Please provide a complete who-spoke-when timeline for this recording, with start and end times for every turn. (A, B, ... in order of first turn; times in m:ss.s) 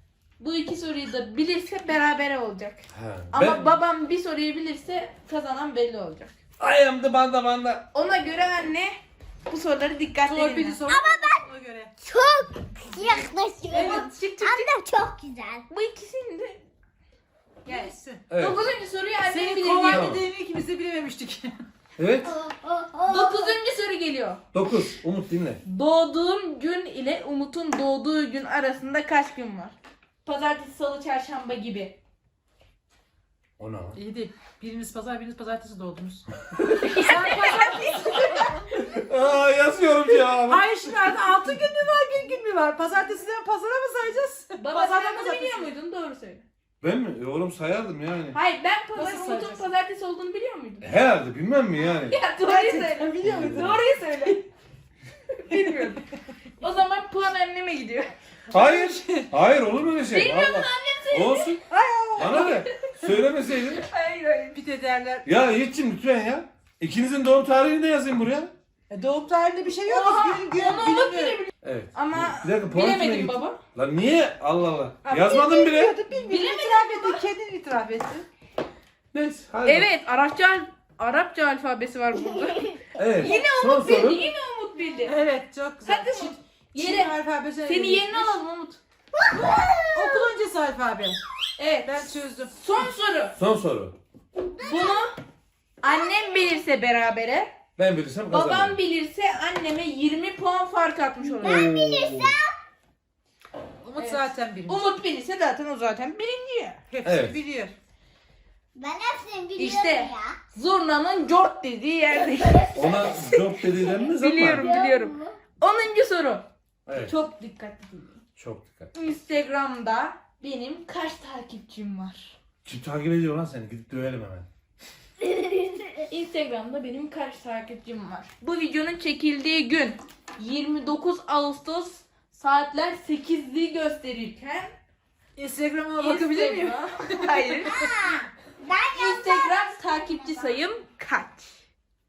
0:00.4-0:06.3 A
0:02.9-0:03.8 B
0:06.6-0:07.9 B
0:07.9-0:10.8 A
0:10.2-0:11.9 C
0:10.9-0:11.4 D
0:12.0-0:15.6 D
0:13.7-0:14.7 A
0:13.7-0:14.1 C
0:15.7-0:16.6 A
0:17.6-0:18.2 C
0:17.6-0:20.1 A
0:18.3-0:18.6 B
0:19.2-0:21.6 C
0:19.8-0:20.2 B
0:22.0-0:22.3 B
0:22.2-0:23.5 D
0:23.0-0:24.4 A
0:24.5-0:25.6 B
0:25.6-0:32.0 A
0:33.6-0:34.0 B
0:33.9-0:36.3 C
0:36.6-0:38.5 A
0:36.9-0:38.8 C
0:38.8-0:40.7 B
0:40.4-0:45.7 C
0:44.6-0:46.4 A
0:46.8-0:48.4 B
0:48.3-0:50.9 A
0:48.9-0:49.7 C
0:50.8-0:52.2 B
0:52.1-0:54.5 A
0:52.4-0:53.8 C
0:53.2-0:53.8 B
0:55.4-0:56.0 A
0:56.6-0:58.1 A
0:58.5-0:59.3 C
0:58.5-1:01.6 B
1:00.1-1:01.6 A
1:01.7-1:02.6 C
1:02.2-1:03.8 B
1:02.2-1:02.8 A
1:03.7-1:04.6 A
1:04.5-1:05.2 C
1:05.2-1:08.5 B
1:08.9-1:11.4 C
1:09.8-1:13.6 A
1:11.6-1:16.0 B
1:15.0-1:18.2 C
1:16.2-1:17.2 A
1:19.1-1:19.9 B
1:19.6-1:25.2 A
1:23.0-1:24.3 B
1:25.0-1:28.4 C
1:25.8-1:28.8 A
1:29.1-1:30.3 D
1:29.9-1:31.2 C
1:31.6-1:32.0 A
1:31.8-1:32.5 C
1:32.5-1:33.4 A
1:33.4-1:34.0 B
1:34.4-1:35.0 D
1:34.6-1:35.1 A
1:35.8-1:37.5 A
1:35.8-1:36.6 D
1:37.8-1:38.8 B
1:38.3-1:41.7 A
1:41.4-1:42.6 D
1:41.4-1:42.4 B
1:43.8-1:44.8 C
1:44.0-1:46.8 A
1:46.9-1:47.7 C
1:47.0-1:47.4 B
1:48.7-1:50.4 D
1:49.6-1:52.7 A
1:52.1-1:54.1 D
1:52.7-1:54.7 B
1:54.1-1:56.4 A
1:54.6-1:55.4 D
1:56.9-1:57.1 B
1:57.0-1:58.2 A
1:58.4-1:58.9 B
1:58.9-2:02.4 A
2:02.6-2:04.4 B
2:05.2-2:14.7 A
2:15.4-2:17.9 C
2:16.0-2:17.8 A
2:17.7-2:20.5 D
2:18.9-2:21.6 A